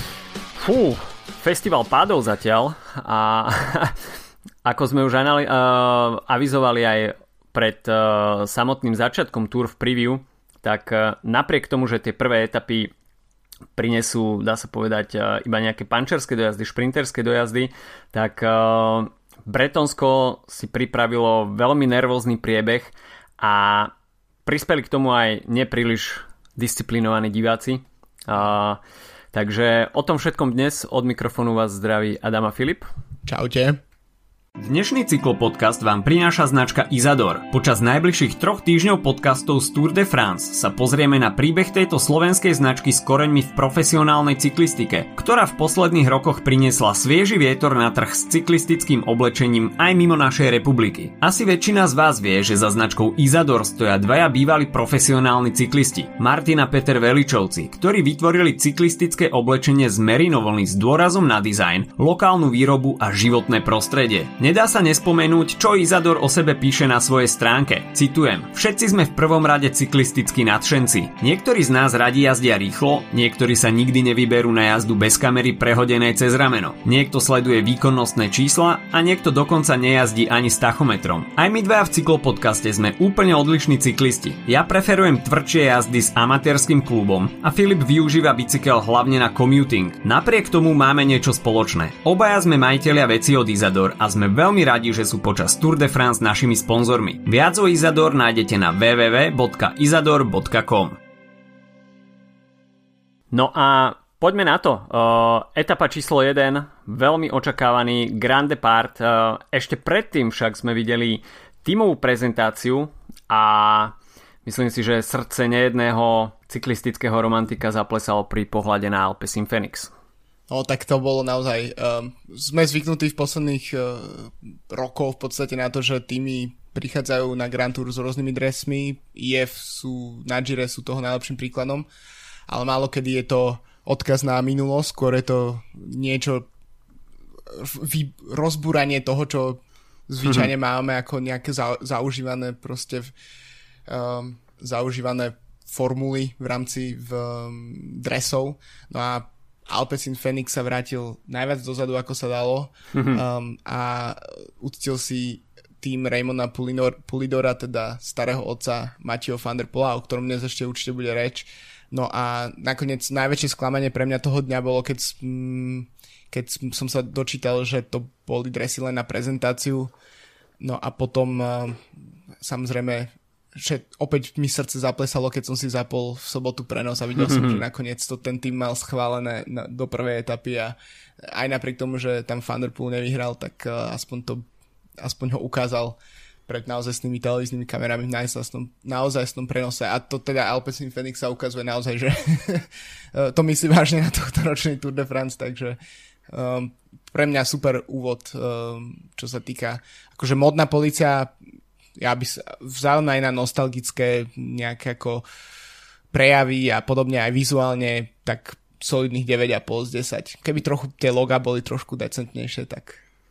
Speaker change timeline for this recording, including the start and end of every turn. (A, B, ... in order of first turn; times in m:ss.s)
0:00.5-0:04.0 A
0:04.6-0:12.9 A
0:13.8-0:23.9 A
0:24.4-0:28.8 A
0:29.3-0:32.9 A
0:33.2-0:33.8 B
0:34.6-1:41.0 A
1:43.3-1:59.9 A
2:00.5-2:11.9 B
2:12.5-2:16.5 B
2:17.5-2:23.1 B
2:20.2-2:20.5 A
2:23.9-2:49.9 B
2:32.9-2:33.2 A
2:50.6-3:04.4 B
2:57.2-2:57.6 A
3:05.0-3:15.8 B
3:16.3-3:21.3 B
3:22.0-3:25.2 B
3:26.1-3:33.0 B